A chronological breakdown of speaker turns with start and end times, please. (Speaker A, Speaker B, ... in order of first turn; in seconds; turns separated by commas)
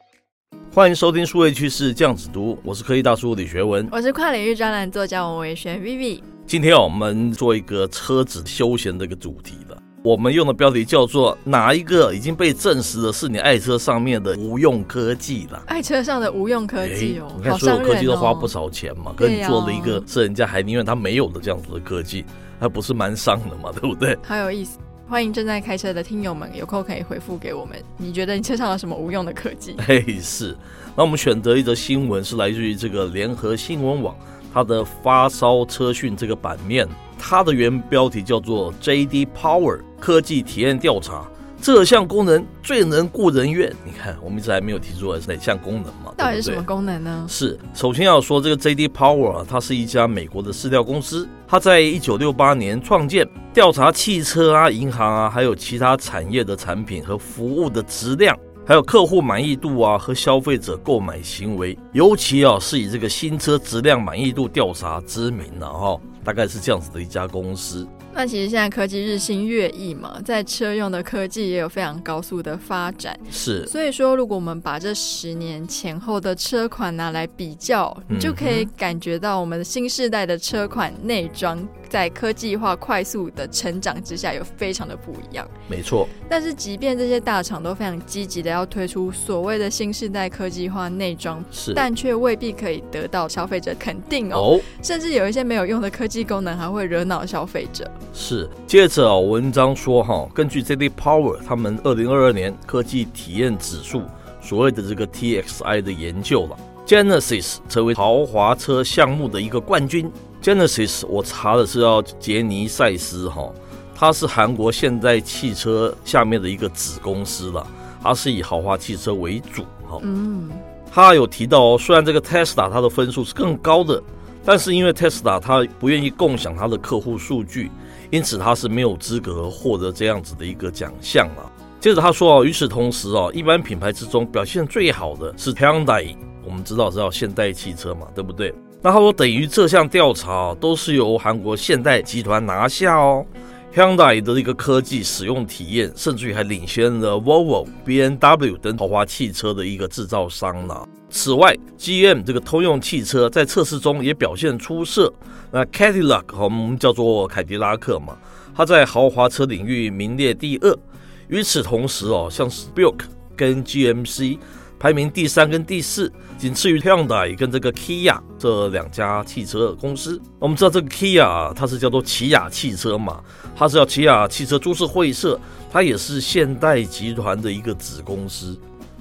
Speaker A: 0.7-3.9, Speaker B: 3.9-6.2, Speaker A: 6.5-15.7, Speaker B: 15.7-18.5, Speaker A: 16.8-24.2, Speaker B: 19.2-20.1, Speaker B: 24.2-29.8, Speaker A: 29.8-46.6, Speaker B: 46.2-47.3, Speaker A: 47.3-67.9, Speaker B: 68.1-85.5, Speaker A: 73.3-73.7, Speaker A: 78.1-78.7, Speaker A: 85.7-86.1, Speaker B: 86.2-97.9, Speaker A: 91.5-91.8, Speaker A: 94.3-94.7, Speaker A: 98.1-120.0, Speaker B: 120.0-120.6, Speaker A: 120.9-178.6